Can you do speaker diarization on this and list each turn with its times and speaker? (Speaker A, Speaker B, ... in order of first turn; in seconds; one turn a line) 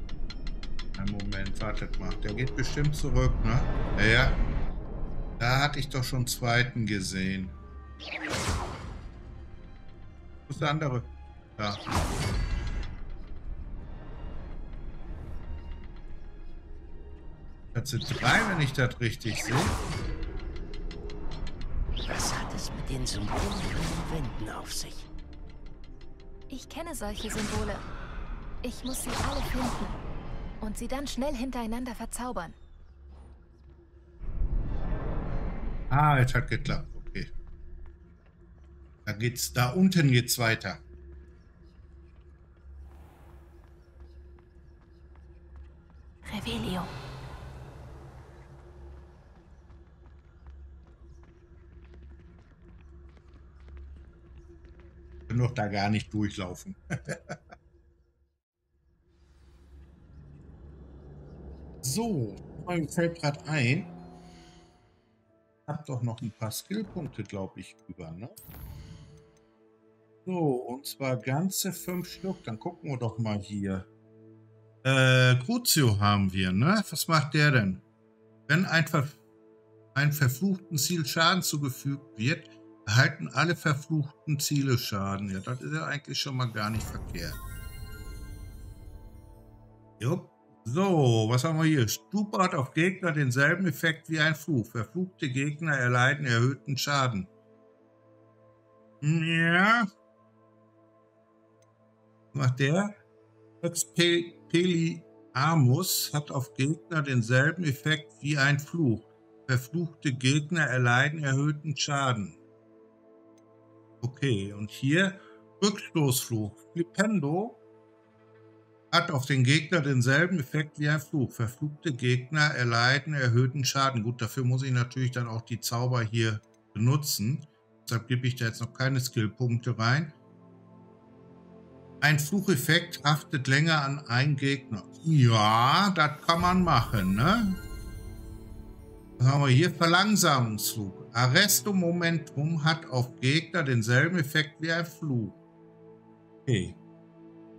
Speaker A: 1.0-4.4
Speaker A: 5.4-7.6
Speaker A: 10.5-11.8
Speaker A: 17.7-19.8
Speaker B: 22.1-25.1
Speaker C: 26.5-27.9
Speaker C: 28.6-30.0
Speaker C: 30.6-32.6
Speaker A: 35.9-37.3
Speaker A: 39.1-40.8
Speaker C: 46.2-46.9
Speaker A: 55.3-57.4
Speaker A: 61.8-63.9
Speaker A: 65.7-68.3
Speaker A: 70.3-73.9
Speaker A: 74.8-77.8
Speaker A: 78.5-79.2
Speaker A: 79.9-87.4
Speaker A: 90.0-97.3
Speaker A: 99.0-99.9
Speaker A: 102.3-102.9
Speaker A: 103.6-112.4
Speaker A: 114.0-117.6
Speaker A: 118.9-130.2
Speaker A: 132.0-137.6
Speaker A: 139.2-145.4
Speaker A: 146.5-146.8